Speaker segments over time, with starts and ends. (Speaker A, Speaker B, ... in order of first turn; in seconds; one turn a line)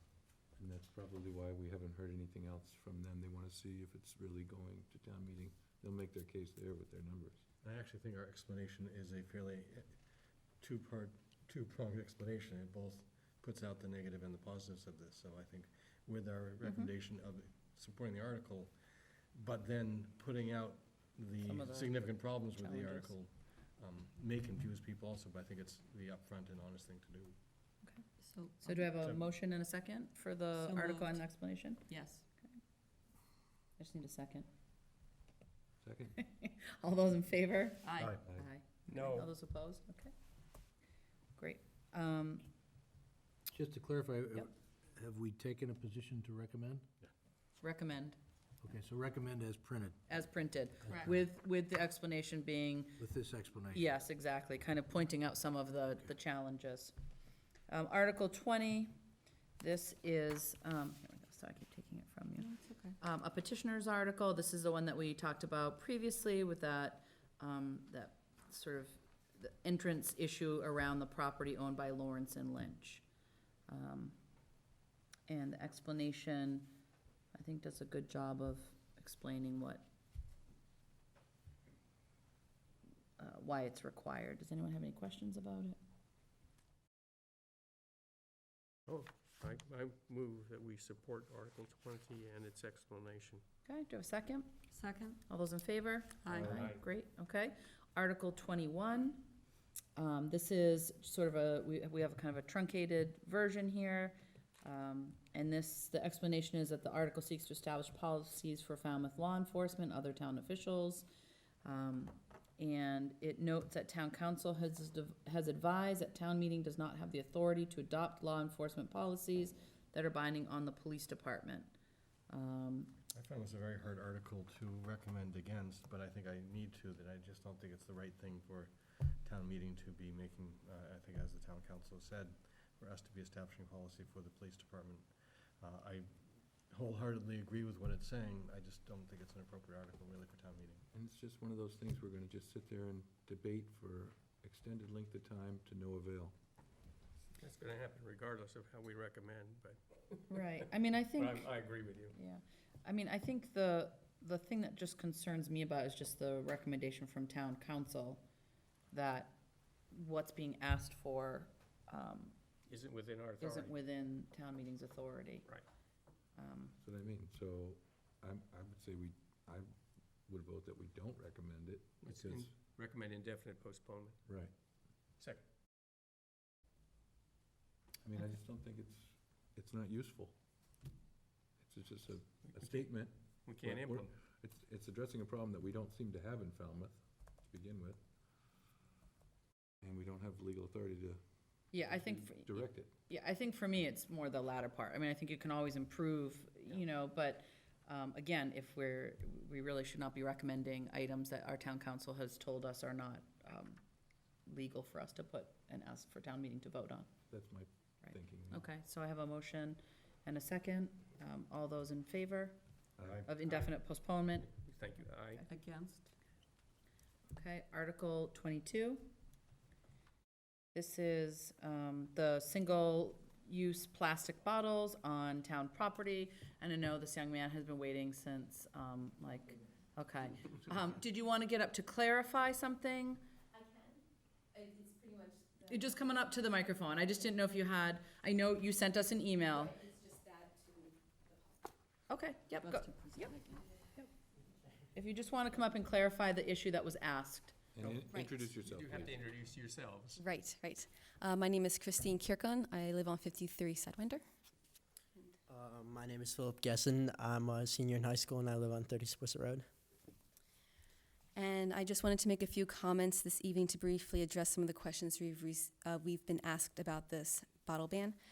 Speaker A: 0.6-7.4
Speaker B: 7.6-10.0
Speaker B: 10.6-18.7
Speaker C: 16.6-16.9
Speaker B: 19.3-27.4
Speaker C: 21.4-23.1
Speaker D: 28.2-28.9
Speaker C: 28.6-32.6
Speaker D: 30.5-32.2
Speaker C: 33.8-34.5
Speaker A: 35.8-36.1
Speaker C: 36.2-40.1
Speaker E: 38.9-39.3
Speaker C: 41.4-42.5
Speaker F: 43.5-46.9
Speaker C: 47.6-48.2
Speaker F: 48.6-50.0
Speaker C: 50.1-53.0
Speaker F: 50.9-51.2
Speaker F: 53.0-53.8
Speaker C: 53.7-56.9
Speaker C: 57.7-58.9
Speaker C: 59.6-73.0
Speaker D: 62.4-63.0
Speaker C: 73.7-74.2
Speaker C: 75.3-76.7
Speaker C: 77.3-79.8
Speaker C: 83.2-85.8
Speaker E: 88.9-93.4
Speaker C: 93.7-94.6
Speaker D: 94.7-95.2
Speaker C: 95.2-99.2
Speaker D: 96.2-96.5
Speaker A: 96.3-96.7
Speaker E: 96.4-96.8
Speaker C: 100.0-111.1
Speaker C: 111.6-121.7
Speaker C: 122.3-122.9
Speaker B: 123.1-136.1
Speaker B: 136.7-140.8
Speaker A: 140.9-146.3
Speaker E: 147.4-150.2
Speaker C: 150.3-151.5
Speaker E: 151.2-152.1
Speaker C: 152.1-158.2
Speaker C: 158.9-159.3
Speaker C: 159.9-162.3
Speaker E: 162.7-163.7
Speaker C: 163.4-165.5
Speaker C: 166.3-166.7
Speaker A: 166.8-172.5
Speaker E: 172.0-174.2
Speaker A: 174.3-174.5
Speaker A: 178.0-180.3
Speaker A: 181.6-188.0
Speaker E: 182.4-182.9
Speaker E: 183.4-184.1
Speaker A: 189.8-192.9
Speaker C: 191.7-203.8
Speaker C: 204.4-207.1
Speaker A: 207.3-208.7
Speaker C: 208.0-212.6
Speaker A: 213.0-213.3
Speaker C: 213.2-214.5
Speaker E: 214.4-215.4
Speaker D: 215.5-216.1
Speaker C: 217.3-219.1
Speaker C: 220.7-233.2
Speaker C: 235.7-239.8
Speaker C: 242.1-243.3
Speaker D: 242.5-243.7
Speaker C: 244.9-247.6
Speaker A: 247.7-249.2
Speaker G: 248.1-248.4
Speaker E: 248.6-250.2
Speaker G: 250.2-254.2
Speaker H: 255.5-259.7
Speaker G: 261.3-268.1